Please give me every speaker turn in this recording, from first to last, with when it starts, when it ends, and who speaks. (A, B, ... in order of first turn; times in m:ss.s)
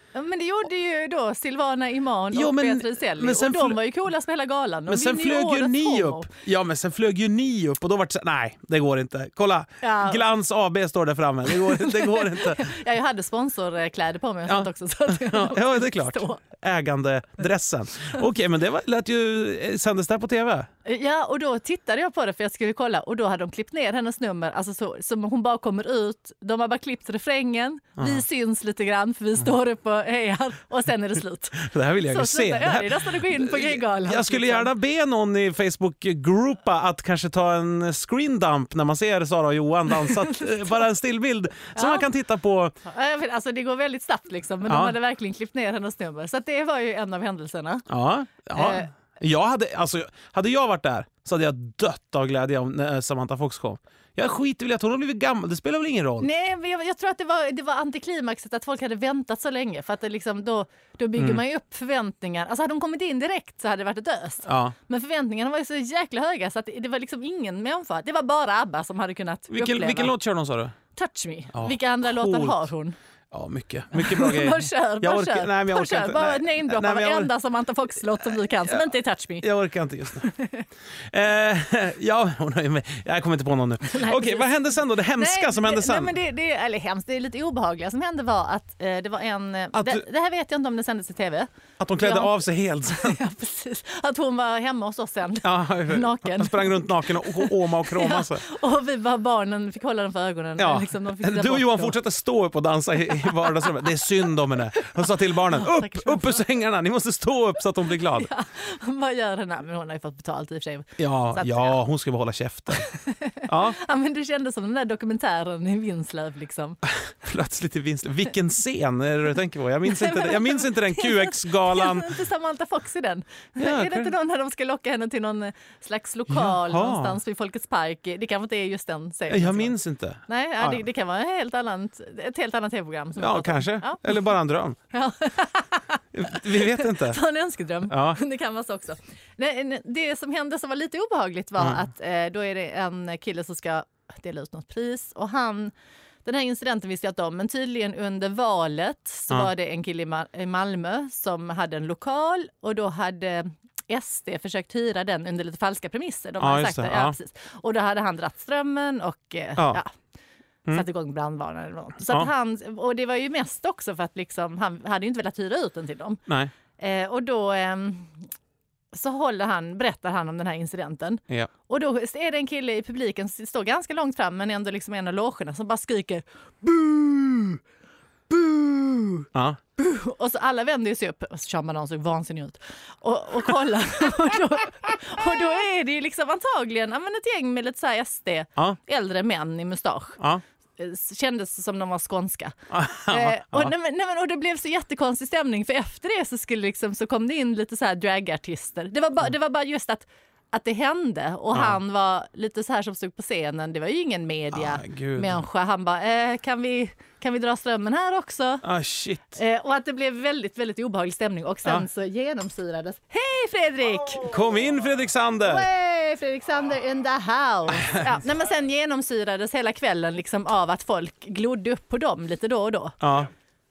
0:00.1-0:06.3 A
0:02.3-0:03.8 B
0:04.9-0:12.7 B
0:09.8-0:10.2 A
0:11.5-0:16.4 A
0:14.5-0:20.7 B
0:20.8-0:34.7 A
0:28.0-0:28.2 B
0:31.6-0:42.8 B
0:39.9-0:40.9 A
0:41.7-0:42.1 A
0:42.8-0:47.9 A
0:44.6-0:44.9 B
0:47.9-0:56.3 B
0:48.5-0:48.9 A
0:56.2-1:10.1 A
1:04.4-1:04.7 B
1:09.5-1:10.7 B
1:10.9-1:13.0 A
1:11.5-1:12.6 B
1:13.3-1:17.3 B
1:13.9-1:19.5 A
1:18.6-1:18.9 B
1:19.4-1:20.3 B
1:20.2-1:20.6 A
1:21.1-1:26.1 B
1:23.8-1:42.0 A
1:29.7-1:30.0 B
1:31.8-1:33.2 B
1:35.4-1:38.4 B
1:40.6-1:48.3 B
1:43.2-1:43.9 A
1:44.7-1:46.4 A
1:47.9-1:51.8 A
1:51.0-1:52.9 B
1:52.7-1:56.8 A
1:53.4-1:53.8 B
1:56.9-2:02.1 B
1:59.8-2:09.7 A
2:03.6-2:04.1 B
2:06.3-2:07.2 B
2:09.3-2:10.8 B
2:10.3-2:14.2 A
2:13.2-2:14.8 B
2:14.9-2:25.7 A
2:16.1-2:17.2 B
2:17.9-2:18.2 B
2:26.2-2:39.9 A
2:36.4-2:37.2 B
2:40.7-2:46.2 A
2:46.8-2:48.1 A
2:48.9-2:57.6 A
2:58.3-3:10.2 A
2:59.3-2:59.6 B
3:10.8-3:12.5 A
3:12.7-3:13.7 B
3:13.1-3:28.6 A
3:24.5-3:25.4 B
3:28.6-3:29.4 B
3:29.4-3:34.2 A
3:34.2-3:35.7 B
3:35.4-3:43.0 A
3:43.0-3:43.3 B